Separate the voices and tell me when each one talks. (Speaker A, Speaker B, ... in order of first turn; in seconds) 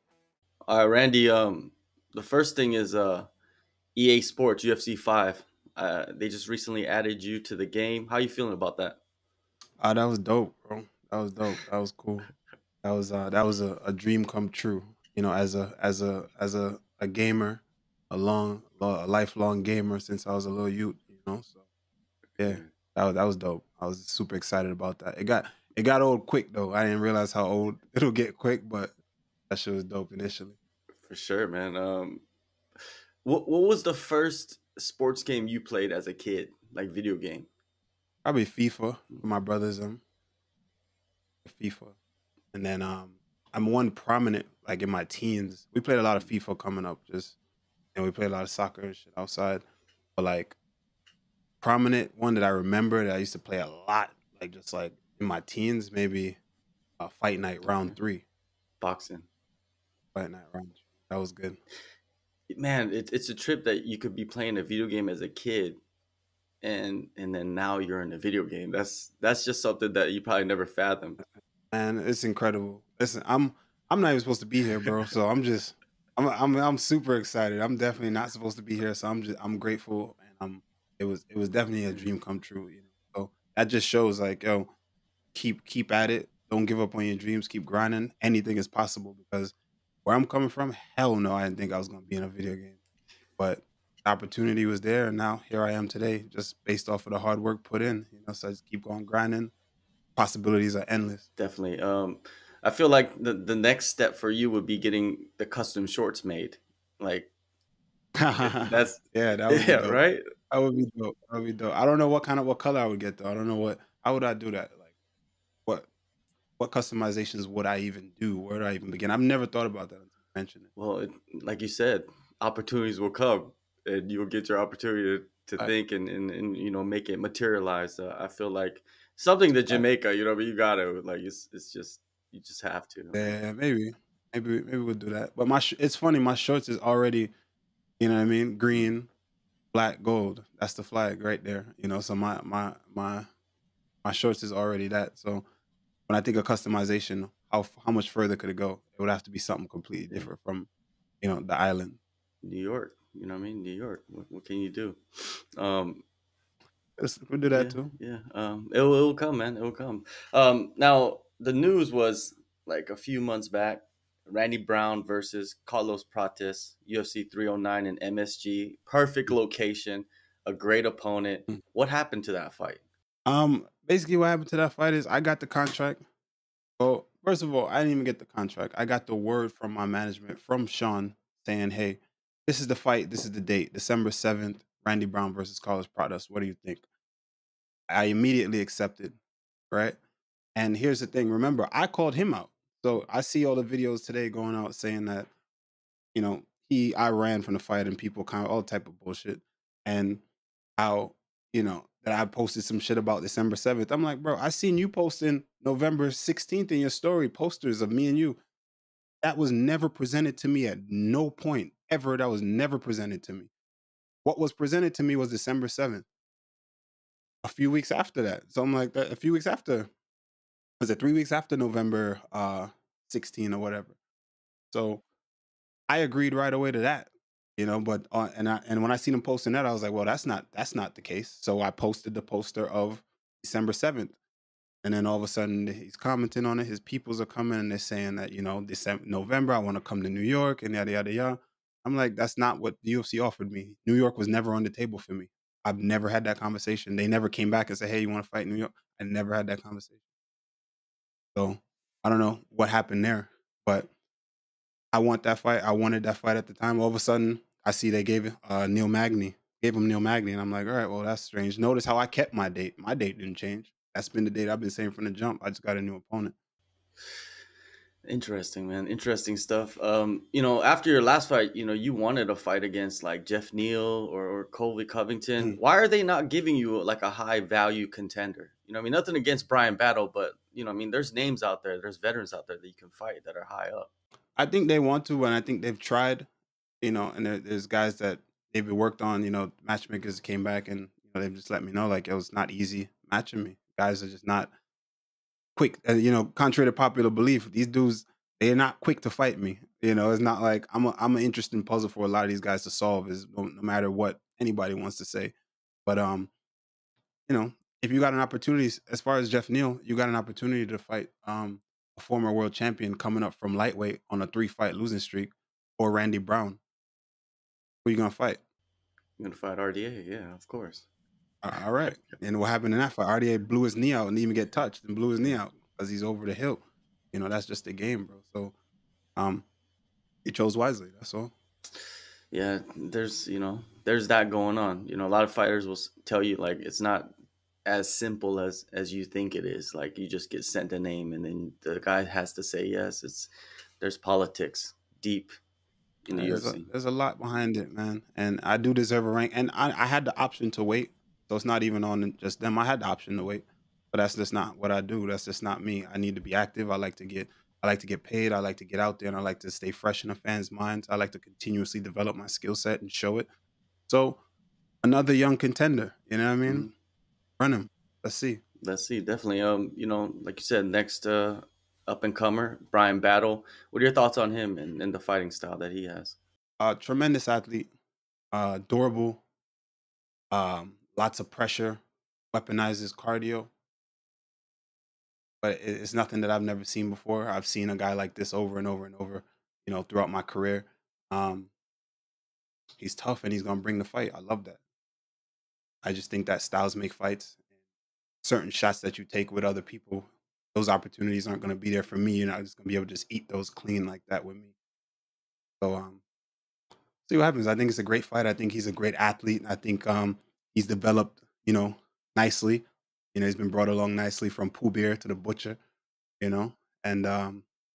Speaker A: 0.7-3.3, 3.9-9.0, 22.4-22.7, 31.0-32.2, 33.2-37.5, 57.6-58.0, 58.8-59.3, 62.5-65.8, 66.6-71.2, 101.3-107.3, 108.4-110.2, 120.8-133.3, 152.4-155.0, 155.6-156.0, 157.5-172.8, 268.1-283.9, 319.2-320.8, 321.8-322.1, 332.3-337.1, 337.6-343.3, 343.8-345.3, 346.0-346.7, 368.6-376.1
Speaker B: 9.8-12.3, 12.8-21.6, 22.4-28.9, 29.5-30.6, 38.2-40.0, 41.4-41.9, 42.5-47.4, 47.9-49.6, 50.2-50.5, 51.6-56.4, 57.0-58.2, 60.1-61.6, 71.7-84.7, 85.3-89.5, 90.0-92.8, 93.4-99.5, 100.2-101.2, 108.2-114.9, 116.6-120.7, 133.1-137.3, 138.0-139.1, 139.7-143.3, 144.0-145.4, 146.1-150.7, 151.2-152.0, 157.0-157.9, 173.2-176.0, 176.8-186.8, 187.9-189.2, 189.7-190.0, 190.5-195.3, 196.1-200.2, 200.8-208.4, 209.2-213.5, 214.2-216.1, 217.4-219.9, 220.8-223.9, 224.7-225.0, 225.9-234.2, 234.8-250.0, 251.3-253.9, 254.9-266.3, 284.4-286.3, 286.8-294.5, 295.6-305.3, 305.9-306.3, 307.3-316.6, 317.8-318.4, 321.4-328.5, 329.1-329.4, 330.2-331.3, 346.1-363.3, 363.9-364.2, 364.8-366.7, 367.4-368.4, 376.6-377.7, 378.3-379.2, 380.3-381.8, 382.3-383.5, 385.4-391.5, 392.8-394.6, 395.8-397.4, 398.2-404.5, 405.6-406.0, 407.1-415.6, 416.2-417.4